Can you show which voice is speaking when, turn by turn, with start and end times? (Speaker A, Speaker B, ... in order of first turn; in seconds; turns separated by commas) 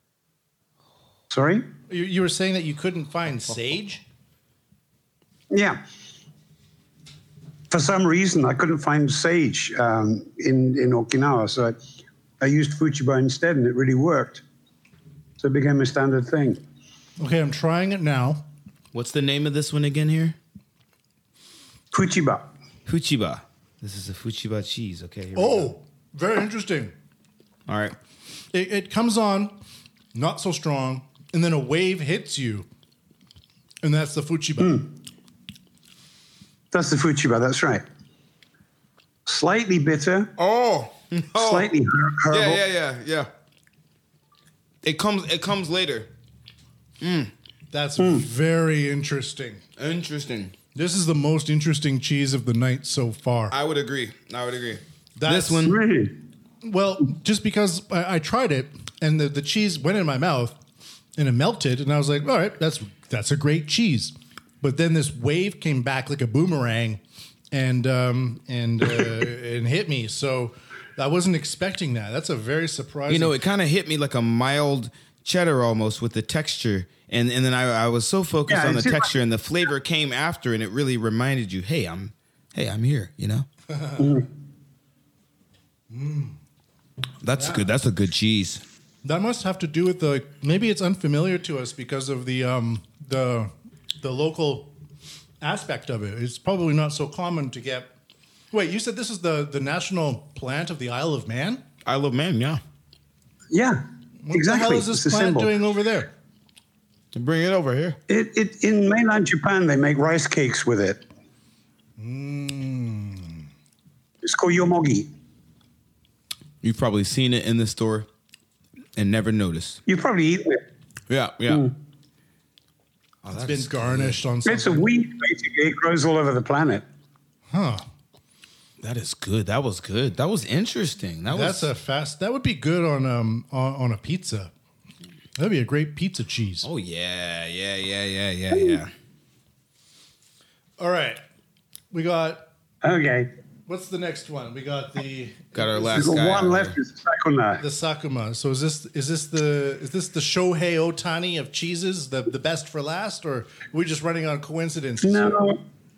Speaker A: 1.3-1.6, Speaker B: 1.9-4.0, Speaker A: 5.5-5.8, Speaker A: 7.7-11.7, Speaker A: 12.4-14.4, Speaker A: 15.4-16.6, Speaker B: 17.2-18.4, Speaker C: 18.9-20.4, Speaker A: 21.9-22.5, Speaker C: 22.9-25.7, Speaker B: 25.3-26.9, Speaker C: 27.7-27.9, Speaker B: 28.5-29.6, Speaker B: 30.1-32.7, Speaker B: 33.8-34.8, Speaker A: 34.6-34.8, Speaker A: 36.7-37.8, Speaker A: 39.2-40.3, Speaker C: 40.4-41.7, Speaker A: 41.3-42.6, Speaker C: 42.3-43.3, Speaker C: 44.8-46.1, Speaker C: 47.0-47.3, Speaker B: 47.7-49.6, Speaker A: 48.0-48.2, Speaker C: 49.8-50.5, Speaker B: 50.7-53.5, Speaker C: 53.5-55.8, Speaker B: 55.2-55.7, Speaker A: 55.6-56.1, Speaker B: 56.6-60.6, Speaker B: 61.1-67.0, Speaker B: 67.5-73.3, Speaker C: 73.1-83.5, Speaker A: 78.5-79.1, Speaker B: 83.7-84.0, Speaker A: 84.0-84.3, Speaker B: 85.9-86.3, Speaker C: 87.2-88.6, Speaker B: 87.4-87.6, Speaker B: 89.0-94.7, Speaker B: 95.4-97.9, Speaker B: 98.5-101.6, Speaker C: 101.8-102.6, Speaker A: 103.5-103.8, Speaker B: 104.2-106.1, Speaker A: 104.3-105.5, Speaker C: 107.1-108.0, Speaker A: 108.1-111.0, Speaker B: 112.0-113.4, Speaker A: 114.2-115.1, Speaker C: 116.6-118.1, Speaker C: 119.0-119.8, Speaker A: 119.9-120.6, Speaker C: 121.1-121.7, Speaker C: 123.2-124.2, Speaker B: 123.3-124.8, Speaker A: 124.5-126.8, Speaker B: 127.5-127.8, Speaker C: 128.8-131.7, Speaker B: 131.3-134.5, Speaker B: 135.4-136.7, Speaker C: 136.6-138.9, Speaker B: 140.8-141.2, Speaker B: 141.9-142.5, Speaker A: 142.8-143.3, Speaker B: 143.7-145.9, Speaker C: 145.5-146.8, Speaker A: 145.9-147.6, Speaker B: 147.6-155.4, Speaker A: 155.0-155.6